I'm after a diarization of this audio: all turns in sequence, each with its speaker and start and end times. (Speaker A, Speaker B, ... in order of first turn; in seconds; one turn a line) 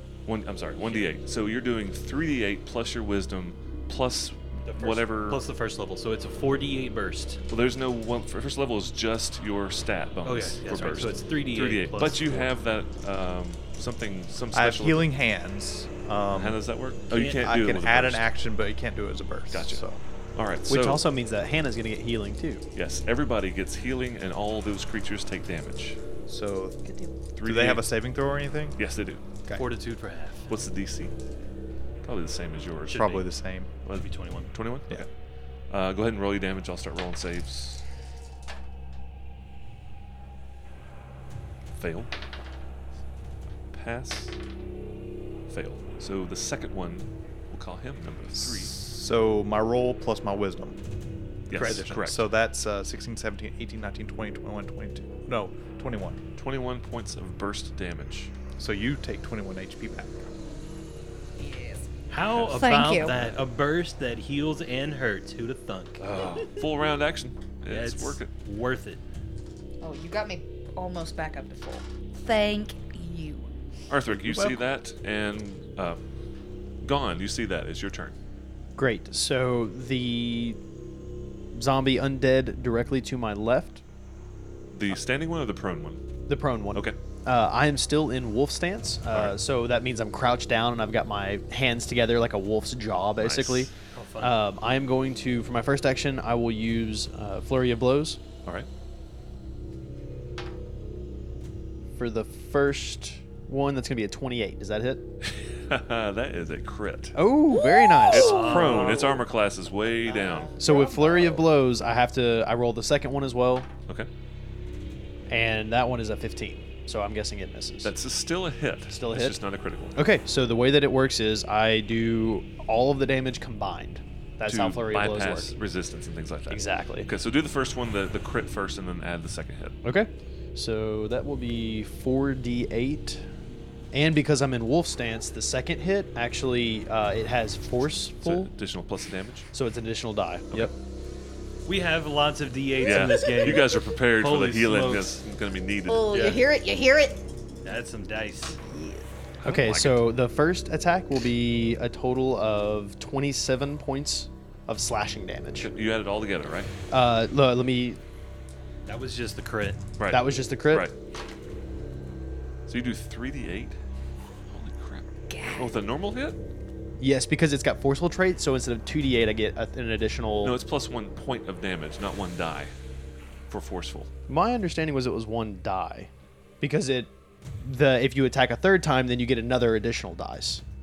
Speaker A: 0.3-5.4
Speaker B: 4.7-7.4
Speaker A: 7.5-15.1
Speaker B: 10.2-12.5
Speaker C: 14.5-16.6
Speaker A: 16.3-18.2
Speaker B: 17.1-17.4
Speaker C: 17.1-20.0
Speaker A: 19.5-19.8
Speaker A: 20.4-21.0
Speaker D: 20.7-22.6
Speaker A: 22.8-26.0
Speaker C: 26.3-26.8
Speaker E: 26.9-27.1
Speaker A: 27.4-27.9
Speaker C: 27.4-28.8
Speaker A: 28.8-29.2
Speaker B: 29.5-30.5
Speaker A: 30.5-31.1
Speaker A: 32.0-33.1
Speaker B: 32.9-33.3
Speaker C: 32.9-33.7
Speaker B: 33.9-34.5
Speaker A: 34.5-35.1
Speaker A: 35.7-37.8
Speaker A: 41.8-42.1
Speaker A: 43.7-44.4
Speaker A: 45.5-48.8
Speaker C: 48.4-50.8
Speaker A: 51.5-52.3
Speaker C: 51.5-56.2
Speaker A: 56.4-58.3
Speaker C: 58.6-60.3
Speaker E: 61.4-61.9
Speaker B: 62.1-66.2
Speaker A: 62.3-63.3
Speaker E: 62.5-63.1
Speaker A: 66.0-68.3
Speaker B: 67.7-69.0
Speaker E: 69.8-73.5
Speaker A: 73.9-76.0
Speaker D: 74.3-74.6
Speaker A: 76.8-78.2
Speaker D: 78.8-80.6
Speaker D: 81.5-83.8
Speaker A: 84.7-86.0
Speaker D: 86.3-98.2
Speaker A: 89.1-89.4
Speaker A: 93.2-93.7
Speaker B: 93.9-94.4
Speaker D: 102.0-105.0
Speaker A: 105.2-107.2
Speaker D: 107.2-108.8
Speaker E: 107.5-108.8
Speaker A: 108.1-110.6
Speaker B: 108.1-109.2
Speaker E: 110.1-111.2
Speaker D: 110.6-113.7
Speaker D: 115.3-117.9
Speaker A: 117.8-120.0
Speaker D: 118.9-119.4
Speaker D: 120.0-125.5
Speaker A: 124.5-129.8
Speaker D: 126.5-127.1
Speaker D: 129.8-133.2
Speaker D: 133.9-138.5
Speaker A: 138.1-139.5
Speaker D: 139.5-140.7
Speaker B: 141.7-145.2
Speaker A: 142.8-146.1
Speaker E: 145.9-147.2
Speaker B: 146.1-146.4
Speaker B: 147.6-148.6
Speaker E: 148.6-149.0
Speaker A: 149.4-150.1
Speaker D: 149.4-155.7
Speaker A: 155.6-156.7
Speaker D: 156.9-158.0
Speaker B: 158.9-159.8
Speaker A: 160.0-160.9
Speaker D: 160.1-160.9
Speaker A: 162.7-163.8
Speaker A: 164.5-166.4
Speaker E: 165.3-165.8
Speaker D: 167.0-170.6
Speaker A: 170.4-172.7
Speaker A: 173.5-174.1
Speaker D: 174.3-176.1
Speaker D: 176.6-180.6